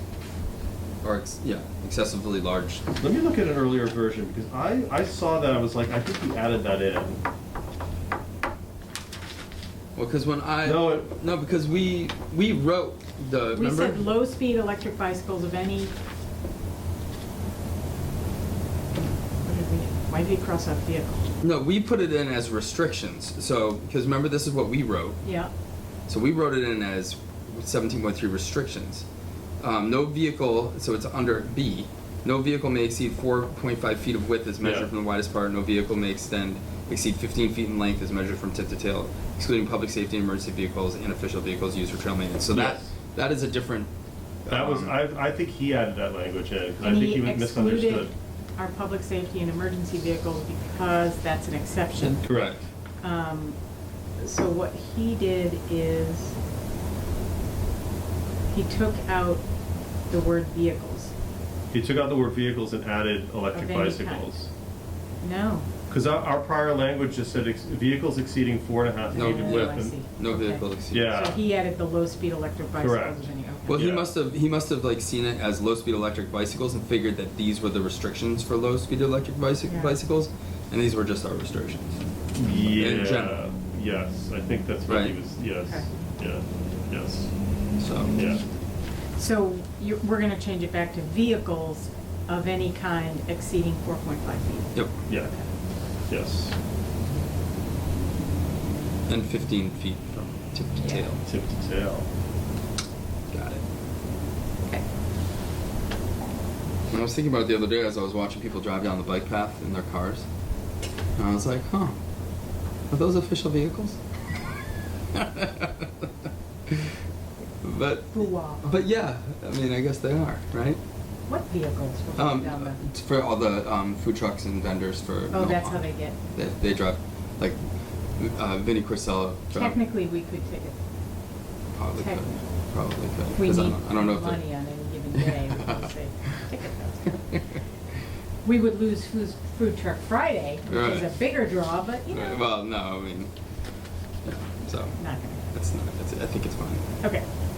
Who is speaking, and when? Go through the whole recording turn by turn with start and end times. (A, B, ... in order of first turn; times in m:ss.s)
0:01.0-0:02.8 A
0:03.0-0:07.2 B
0:09.9-0:14.0 A
0:10.6-0:11.1 B
0:13.5-0:15.9 C
0:18.9-0:21.3 C
0:21.4-0:25.2 A
0:25.2-0:25.5 C
0:26.1-0:29.0 A
0:29.6-0:43.9 A
0:34.6-0:34.9 B
0:42.5-0:42.9 B
0:44.4-0:45.0 A
0:44.5-0:48.1 B
0:46.8-0:52.2 C
0:52.2-0:52.6 B
0:52.3-0:52.6 A
0:53.0-0:53.6 C
0:54.2-0:56.4 C
0:58.5-0:59.4 C
1:00.1-1:01.1 C
1:01.7-1:04.5 B
1:03.5-1:04.3 C
1:05.2-1:05.7 C
1:05.9-1:10.0 B
1:09.1-1:13.8 C
1:09.1-1:11.2 A
1:10.9-1:11.4 B
1:12.8-1:14.1 B
1:13.7-1:22.0 A
1:19.6-1:20.0 C
1:22.3-1:27.3 B
1:22.6-1:23.4 A
1:24.9-1:25.2 A
1:27.8-1:28.1 A
1:28.1-1:28.4 B
1:29.2-1:35.5 C
1:36.1-1:36.5 B
1:39.1-1:41.2 A
1:40.8-1:41.1 C
1:41.2-1:42.1 B
1:43.3-1:43.6 A
1:46.9-1:50.2 A
1:51.2-1:52.0 A
1:52.9-1:54.0 A
1:55.1-1:57.0 A
1:57.6-2:00.8 A
1:58.1-1:58.7 C
2:01.3-2:02.8 C
2:02.2-2:07.6 A
2:05.3-2:06.2 C
2:08.2-2:09.8 A
2:09.5-2:10.8 C
2:11.7-2:14.4 A
2:11.9-2:12.5 C
2:13.3-2:17.4 C
2:15.1-2:15.9 A
2:17.1-2:17.6 A
2:18.4-2:22.5 C
2:20.7-2:21.2 A
2:22.1-2:23.3 A
2:24.2-2:25.0 A
2:25.0-2:25.4 C
2:25.5-2:26.8 A